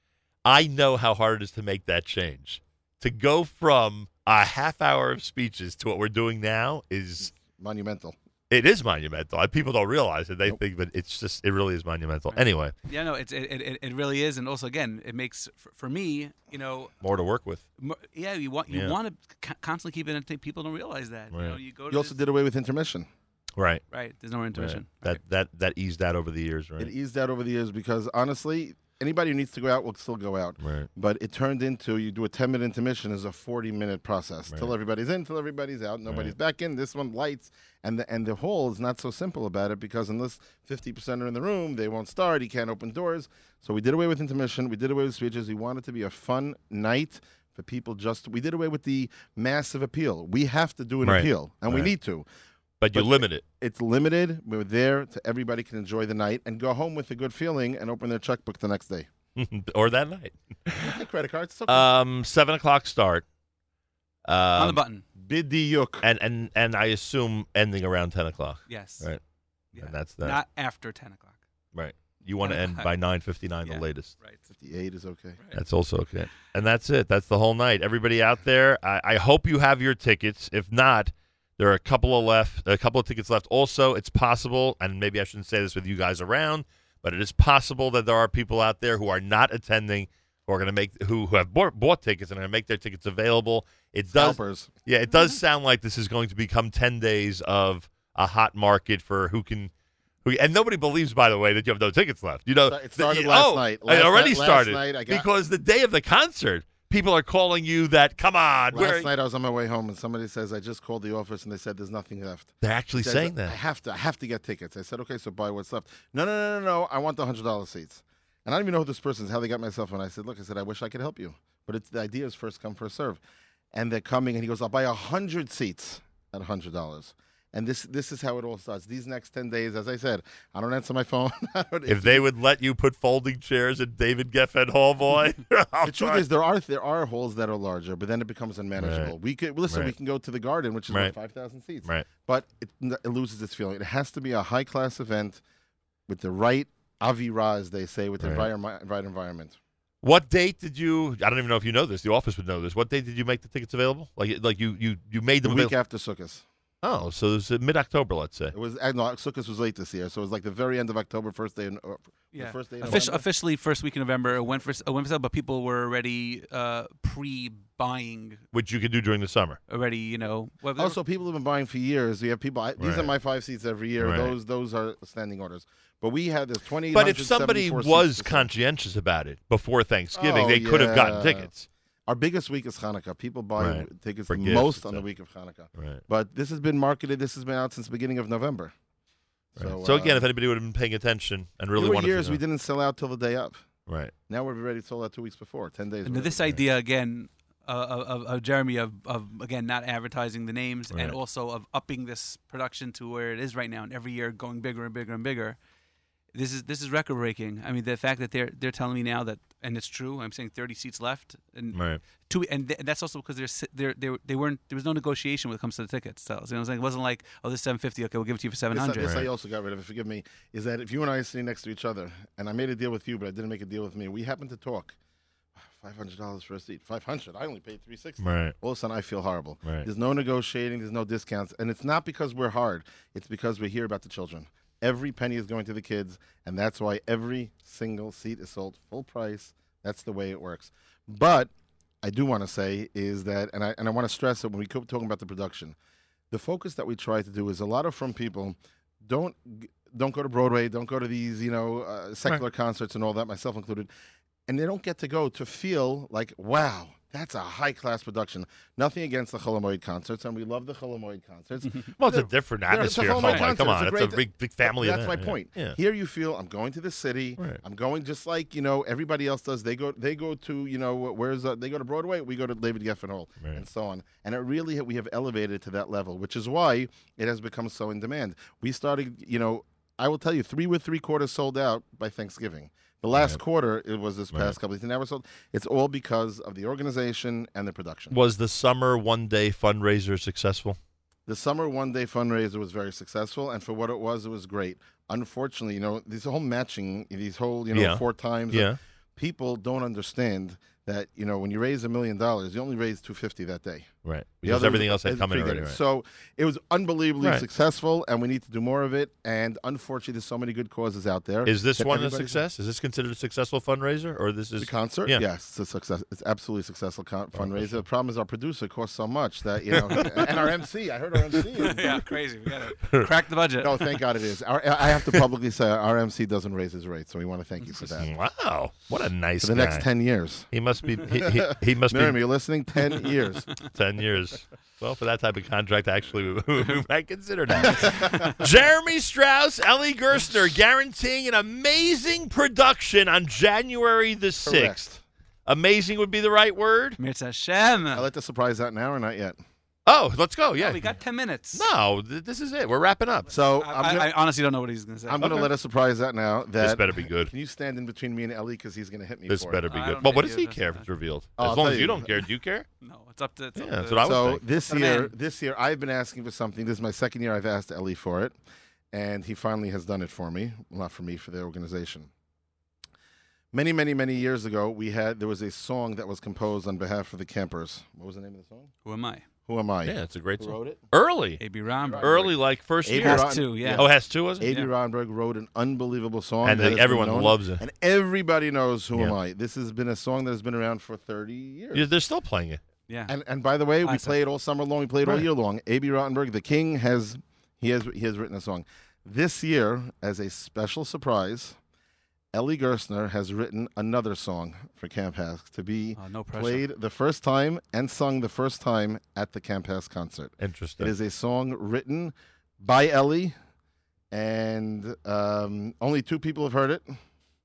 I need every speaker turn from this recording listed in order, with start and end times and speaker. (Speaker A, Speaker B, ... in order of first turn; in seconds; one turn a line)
Speaker A: 0.4-7.3
Speaker B: 7.3-8.2
Speaker A: 8.5-12.7
Speaker C: 12.3-16.9
Speaker A: 17.0-17.6
Speaker C: 17.8-22.1
Speaker A: 18.7-18.9
Speaker A: 21.3-21.6
Speaker B: 21.9-23.1
Speaker A: 23.6-23.8
Speaker C: 23.9-25.2
Speaker A: 24.5-26.9
Speaker B: 26.8-52.2
Speaker A: 30.6-30.9
Speaker A: 36.1-36.3
Speaker A: 51.0-51.9
Speaker A: 52.8-53.4
Speaker B: 52.9-59.1
Speaker A: 59.4-61.0
Speaker B: 60.8-61.9
Speaker A: 61.7-63.2
Speaker A: 64.2-64.8
Speaker C: 64.5-65.0
Speaker B: 65.2-66.0
Speaker A: 66.0-69.2
Speaker C: 68.7-69.1
Speaker C: 69.7-71.4
Speaker A: 69.8-70.4
Speaker A: 71.7-74.1
Speaker C: 72.4-72.9
Speaker C: 73.6-74.4
Speaker B: 74.5-75.4
Speaker A: 75.5-99.7
Speaker B: 94.1-94.7
Speaker A: 100.2-109.1
Speaker B: 102.7-105.3
Speaker B: 108.7-123.2
Speaker A: 112.6-113.5
Speaker B: 123.7-132.3
Speaker A: 131.9-136.2
Speaker B: 135.8-145.4
Speaker A: 138.8-139.1
Speaker A: 140.9-141.1
Speaker B: 146.1-149.6
Speaker A: 148.2-148.5
Speaker A: 150.0-155.7
Speaker B: 155.4-156.4
Speaker A: 156.8-158.5
Speaker B: 158.5-163.2
Speaker C: 162.3-168.4
Speaker A: 168.5-169.6
Speaker C: 169.7-171.0
Speaker B: 170.8-178.5
Speaker A: 172.8-173.1
Speaker A: 174.0-174.3
Speaker A: 176.9-181.7
Speaker B: 180.1-181.5
Speaker B: 182.1-188.7
Speaker A: 183.6-185.0
Speaker A: 185.7-186.0
Speaker B: 189.6-190.2
Speaker A: 189.6-192.4
Speaker B: 191.8-193.6
Speaker A: 193.9-194.1
Speaker B: 194.3-196.5
Speaker C: 196.1-205.6
Speaker A: 200.9-201.2
Speaker C: 206.3-219.1
Speaker A: 211.7-212.0
Speaker B: 218.7-225.0
Speaker A: 219.0-219.3
Speaker B: 225.6-241.5
Speaker A: 228.2-228.5
Speaker B: 242.0-245.8
Speaker B: 246.3-253.9
Speaker B: 254.5-288.1
Speaker A: 262.0-265.8
Speaker C: 263.2-263.5
Speaker A: 288.1-290.8
Speaker B: 291.2-303.9
Speaker A: 297.7-298.8
Speaker A: 304.0-305.8
Speaker B: 304.4-312.4
Speaker A: 311.4-315.2
Speaker B: 314.6-322.0
Speaker A: 317.3-317.8
Speaker A: 319.7-320.4
Speaker C: 321.5-323.9
Speaker A: 322.8-323.1
Speaker B: 323.6-328.1
Speaker A: 328.0-329.9
Speaker B: 329.4-330.5
Speaker A: 330.5-332.2
Speaker B: 331.0-333.5
Speaker A: 333.6-344.8
Speaker B: 337.6-338.3
Speaker C: 337.7-338.4
Speaker B: 344.4-345.0
Speaker A: 345.5-347.0
Speaker C: 347.0-348.0
Speaker B: 347.9-349.4
Speaker A: 349.9-350.8
Speaker C: 350.6-351.7
Speaker A: 351.5-353.3
Speaker B: 353.3-354.1
Speaker C: 353.6-355.5
Speaker B: 355.1-359.6
Speaker A: 355.2-355.5
Speaker A: 356.6-357.3
Speaker A: 359.3-362.6
Speaker C: 359.7-360.9
Speaker B: 361.4-362.1
Speaker C: 362.8-365.1
Speaker A: 363.6-364.4
Speaker B: 364.0-368.4
Speaker B: 368.9-372.1
Speaker B: 373.5-378.7
Speaker C: 378.8-379.2
Speaker B: 379.5-380.8
Speaker A: 379.8-381.4
Speaker C: 381.4-382.2
Speaker B: 381.9-382.3
Speaker A: 382.0-384.5
Speaker B: 382.8-391.9
Speaker C: 383.0-383.9
Speaker C: 384.4-384.7
Speaker A: 386.4-387.6
Speaker A: 391.7-392.6
Speaker C: 392.9-393.1
Speaker B: 393.1-401.6
Speaker C: 393.8-394.2
Speaker B: 402.3-413.3
Speaker C: 406.0-406.6
Speaker A: 410.4-410.9
Speaker B: 414.1-417.0